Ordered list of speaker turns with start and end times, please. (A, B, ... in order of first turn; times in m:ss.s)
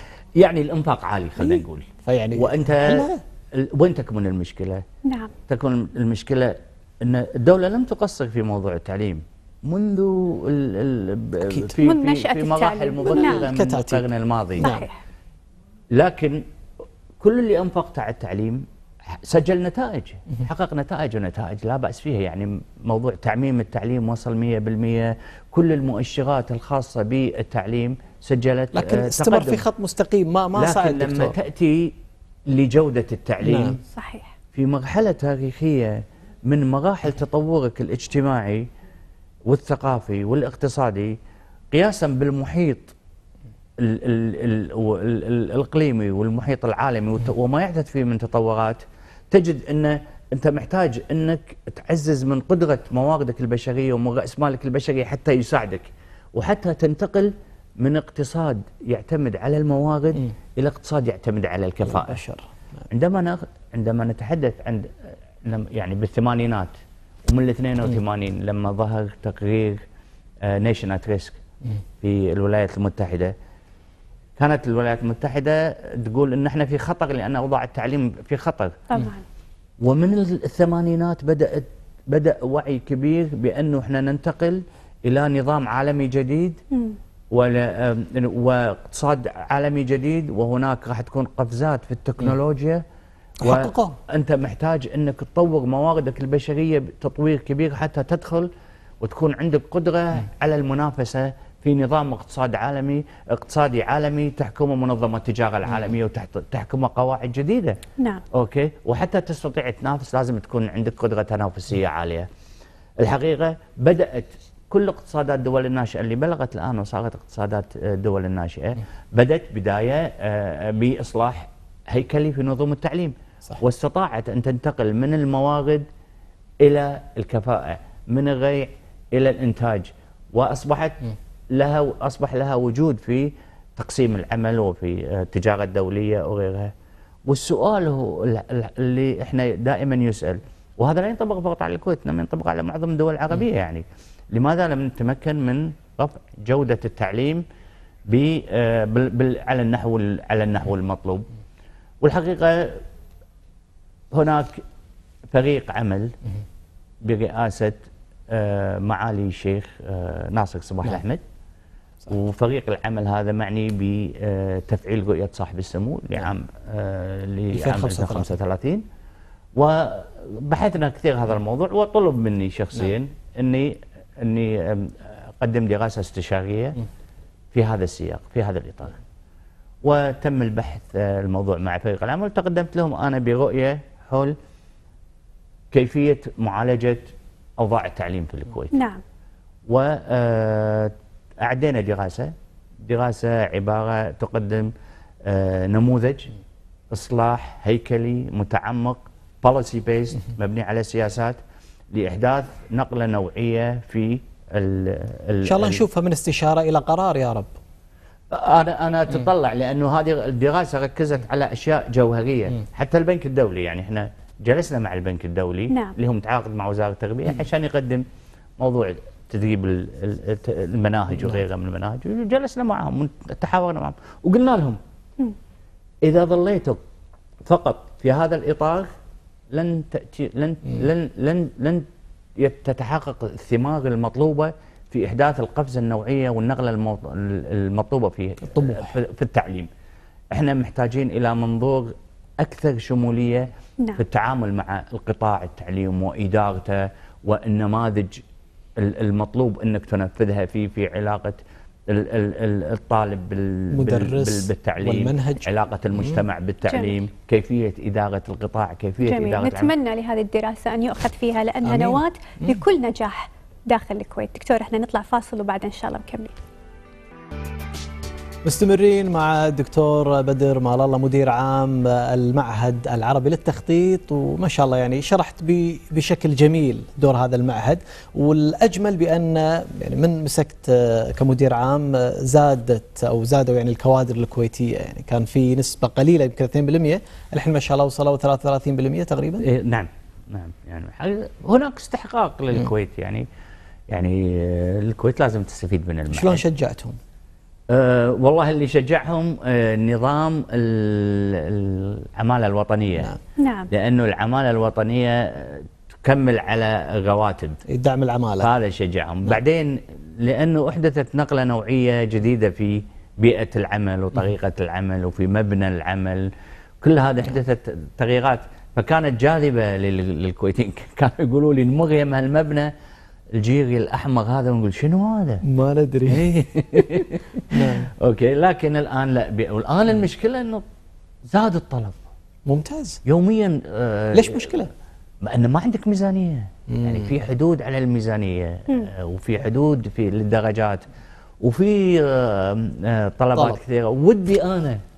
0:00.4-0:04.8 A
0:02.0-0:03.2 B
0:05.0-0:05.3 C
0:05.4-0:14.8 A
0:11.8-0:13.5 C
0:13.1-0:14.0 B
0:14.6-0:14.9 C
0:15.9-0:16.4 A
0:17.2-0:29.7 A
0:28.7-0:31.4 B
0:30.5-0:32.0 A
0:32.5-0:33.8 A
0:33.4-0:33.8 B
0:33.9-0:34.3 C
0:34.5-0:38.7 A
0:39.5-0:41.2 A
0:41.7-0:42.9 A
0:43.8-1:02.2 A
1:01.8-1:02.5 B
1:02.9-1:06.7 A
1:07.2-1:09.8 A
1:10.4-1:11.4 A
1:12.0-1:13.3 A
1:14.4-1:18.8 A
1:18.9-1:19.2 C
1:19.8-1:26.6 A
1:26.7-1:27.0 C
1:27.3-1:32.8 A
1:33.4-1:38.5 A
1:33.4-1:34.0 B
1:39.0-1:47.8 A
1:48.0-1:48.2 C
1:48.3-1:52.3 A
1:53.0-2:05.8 A
2:06.6-2:16.7 A
2:17.2-2:27.4 A
2:28.1-2:31.3 A
2:32.0-2:32.8 A
2:34.1-2:34.6 A
2:35.3-2:36.2 A
2:37.0-2:41.2 A
2:42.1-2:48.8 A
2:47.5-2:48.3 B
2:49.5-2:56.8 A
2:57.5-2:59.0 A
2:59.8-3:04.3 A
3:05.7-3:08.8 A
3:08.7-3:09.0 C
3:09.7-3:16.3 A
3:16.9-3:21.4 A
3:21.9-3:25.8 A
3:25.4-3:27.5 B
3:28.3-3:38.0 A
3:35.7-3:35.9 C
3:38.6-3:44.8 A
3:46.0-3:46.8 A
3:47.4-3:48.9 A
3:49.5-3:59.7 A
3:58.4-3:59.0 B
4:00.3-4:08.2 A
4:08.8-4:19.7 A
4:13.7-4:16.2 B
4:16.7-4:16.9 C
4:19.0-4:26.3 C
4:21.6-4:22.6 B
4:28.4-4:49.4 B
4:49.4-4:53.2 A
4:53.9-4:56.4 A
4:56.1-4:57.0 B
4:57.7-5:03.1 A
5:03.4-5:03.7 C
5:03.7-5:07.6 A
5:07.7-5:08.5 B
5:08.4-5:22.7 A
5:23.3-5:25.4 A
5:25.4-5:27.9 B
5:26.0-5:30.6 A
5:31.3-5:32.0 A
5:32.5-5:33.0 B
5:33.0-5:34.6 A
5:34.1-5:34.7 B
5:35.2-5:40.8 A
5:36.7-5:37.1 B
5:41.4-5:44.8 A
5:43.3-5:43.6 B